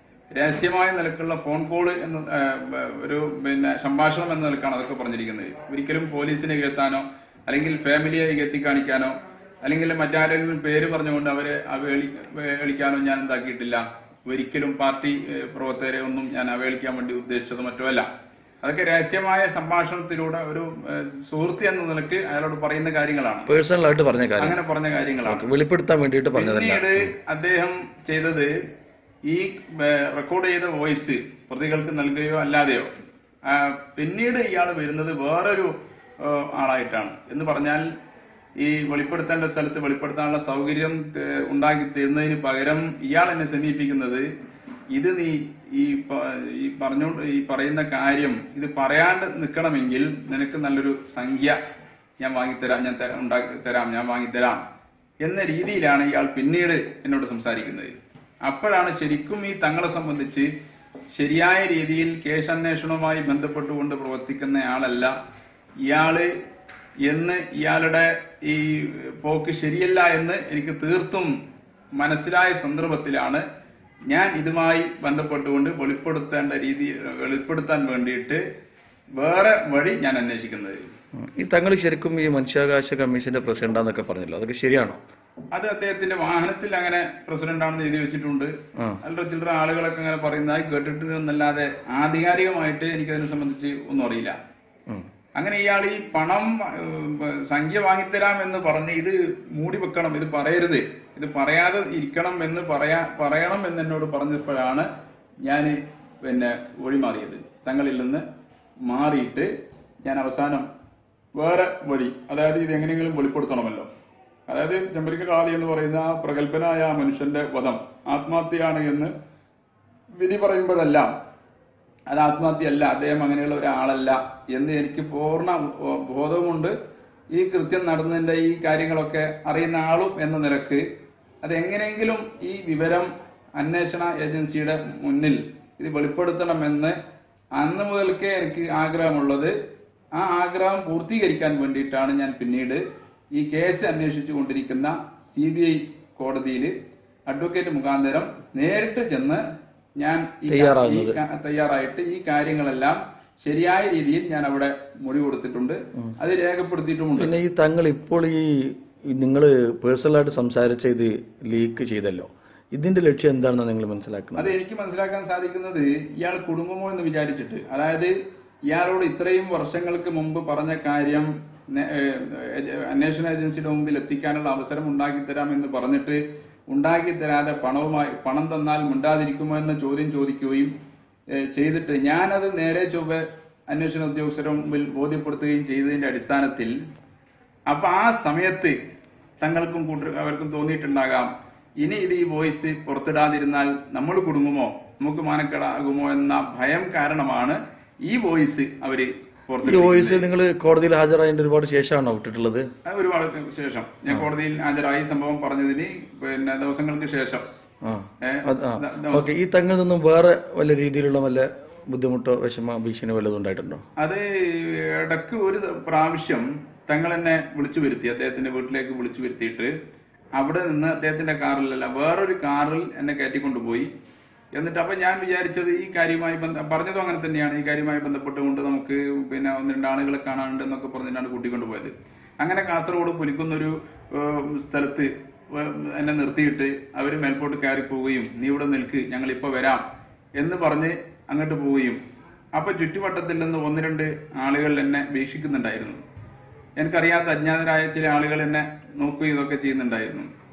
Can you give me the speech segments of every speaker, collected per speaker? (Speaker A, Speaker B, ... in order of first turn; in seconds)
Speaker A: 0.3-18.1, 18.6-23.5, 24.4-25.5, 26.4-28.5, 29.3-32.9, 33.5-37.9, 38.6-44.3, 44.9-51.6, 52.2-54.6, 55.2-60.5, 61.1-65.1, 65.9-66.3, 67.0-71.3, 72.0-73.4, 74.1-78.4, 79.2-80.8, 85.5-88.5, 89.0-94.4, 95.4-104.9, 105.5-108.2, 108.8-109.5, 110.0-110.7, 111.3-113.9, 114.5-119.1, 120.2-121.1, 122.1-126.7, 127.3-130.8, 131.4-137.0, 137.6-139.5, 140.1-142.8, 143.3-146.7, 147.3-149.4, 150.0-157.3, 164.4-168.1, 168.7-180.7, 181.5-186.7, 187.7-188.8, 189.4-191.3, 191.8-200.3, 202.9-207.4, 208.2-209.3, 214.0-219.7, 220.4-223.9, 224.5-239.8, 240.4-242.0, 242.6-246.0, 246.8-250.3
Speaker B: 23.5-24.6, 25.2-27.1, 81.2-85.0, 150.5-151.2, 157.2-164.6, 199.6-202.7, 207.8-213.8